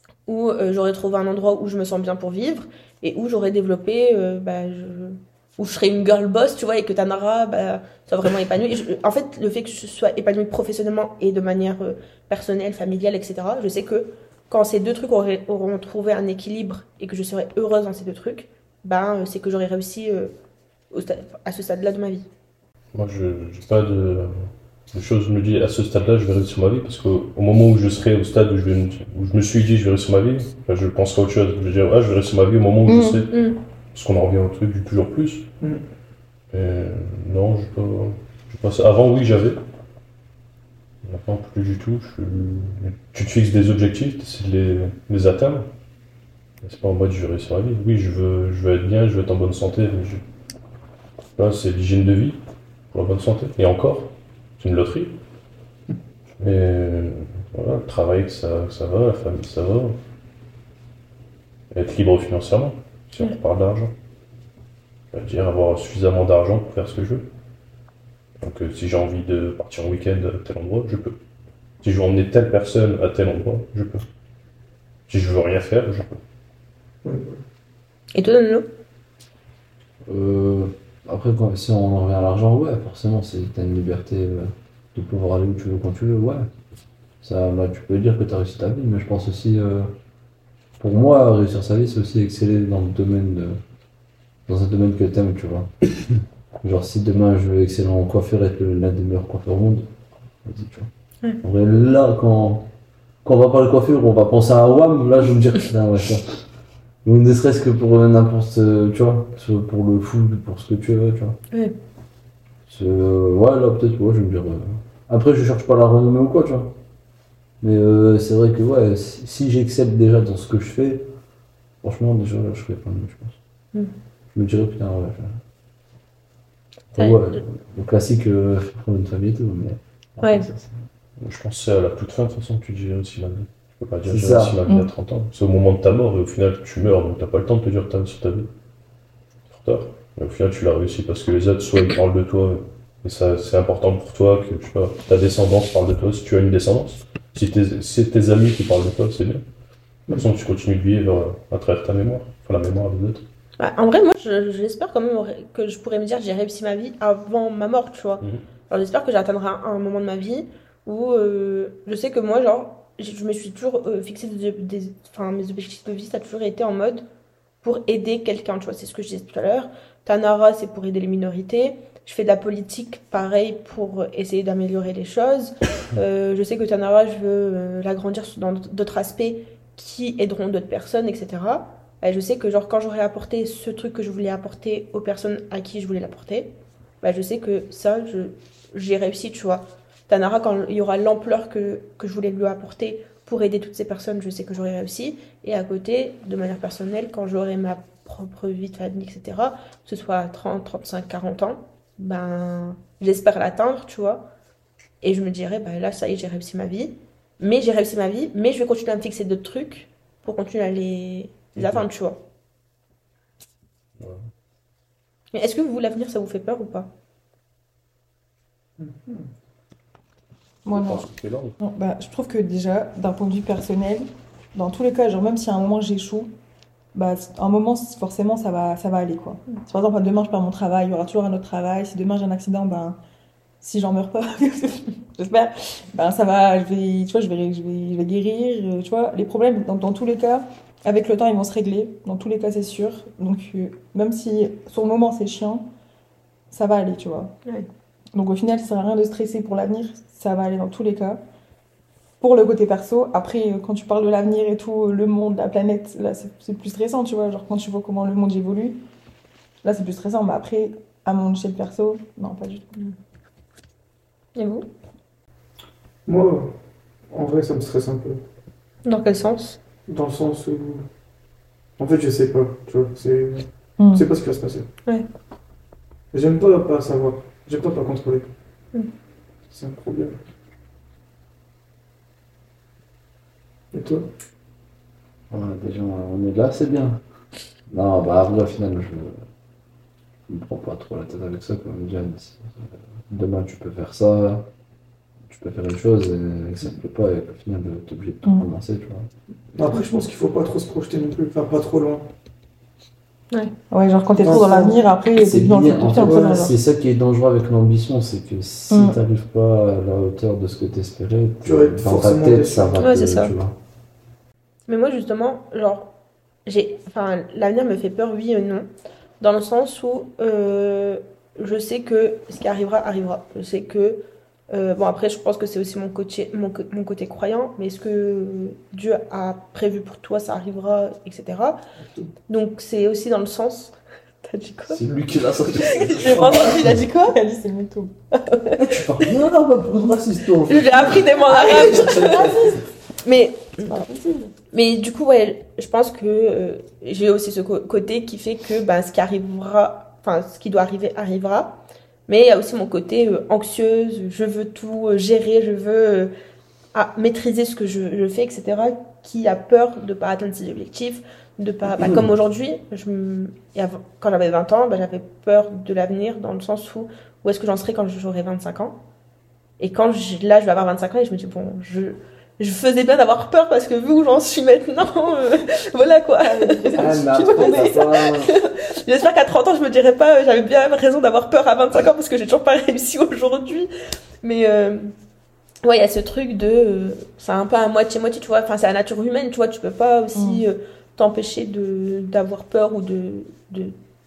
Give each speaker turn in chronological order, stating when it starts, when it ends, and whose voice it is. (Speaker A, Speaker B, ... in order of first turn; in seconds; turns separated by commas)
Speaker A: 0.3-20.3, Speaker A: 20.9-22.3, Speaker B: 22.9-35.5, Speaker C: 32.9-33.2, Speaker A: 33.3-33.6, Speaker B: 36.5-39.6, Speaker B: 41.0-45.7, Speaker B: 46.6-50.2, Speaker B: 51.4-55.2, Speaker B: 56.4-60.0, Speaker B: 61.7-63.9, Speaker B: 65.1-67.3, Speaker B: 68.4-71.2, Speaker B: 71.8-74.0, Speaker B: 75.1-76.2, Speaker D: 77.0-77.4, Speaker A: 78.1-78.7, Speaker E: 80.0-86.5, Speaker E: 87.2-89.9, Speaker E: 90.8-93.6, Speaker E: 94.5-95.9, Speaker E: 96.6-99.9, Speaker E: 100.4-100.9, Speaker E: 101.4-102.7, Speaker E: 103.2-106.3, Speaker E: 107.0-111.4, Speaker E: 112.7-116.7, Speaker E: 117.6-121.1, Speaker E: 121.8-123.4, Speaker E: 124.3-125.4, Speaker E: 126.9-130.8, Speaker A: 127.0-127.3, Speaker A: 130.2-130.5, Speaker B: 131.2-138.5, Speaker E: 134.1-134.6, Speaker B: 139.5-149.4, Speaker B: 150.1-153.3, Speaker A: 153.6-167.1, Speaker A: 167.6-204.3, Speaker A: 205.0-212.2, Speaker B: 211.6-211.9, Speaker A: 215.3-216.9, Speaker D: 218.8-219.3, Speaker C: 220.7-221.1, Speaker B: 220.7-221.6, Speaker C: 221.6-226.3, Speaker C: 226.9-233.0, Speaker C: 233.6-245.7, Speaker C: 246.5-247.3, Speaker C: 248.1-251.2, Speaker C: 252.2-258.8, Speaker C: 259.6-262.7, Speaker A: 264.4-264.7, Speaker D: 266.1-266.5, Speaker D: 267.1-268.2, Speaker A: 268.9-269.6, Speaker D: 269.9-270.9, Speaker D: 271.8-274.7, Speaker C: 273.8-274.1, Speaker D: 276.1-278.3, Speaker D: 279.5-280.2, Speaker D: 283.7-284.1, Speaker E: 285.3-287.0, Speaker E: 287.7-289.2, Speaker E: 290.3-294.5, Speaker E: 295.3-299.1, Speaker D: 299.5-302.1, Speaker C: 303.7-306.6, Speaker D: 304.2-304.9, Speaker E: 305.2-313.6, Speaker D: 305.9-306.4, Speaker C: 308.7-309.0, Speaker D: 311.4-312.8, Speaker A: 312.8-313.3, Speaker A: 314.7-315.9, Speaker A: 316.5-318.7, Speaker A: 319.2-331.6, Speaker D: 331.8-332.1, Speaker A: 332.3-334.8, Speaker E: 334.7-336.8, Speaker A: 335.6-337.2, Speaker C: 337.0-337.9, Speaker A: 338.1-339.1, Speaker E: 338.6-342.6, Speaker A: 340.5-342.4, Speaker C: 341.3-342.6, Speaker A: 343.0-343.8, Speaker C: 343.7-344.3, Speaker A: 344.5-356.1, Speaker A: 356.7-368.8, Speaker A: 369.6-383.7, Speaker C: 376.2-377.8, Speaker E: 376.8-378.3, Speaker A: 384.2-384.9, Speaker A: 385.6-393.8, Speaker C: 390.1-390.4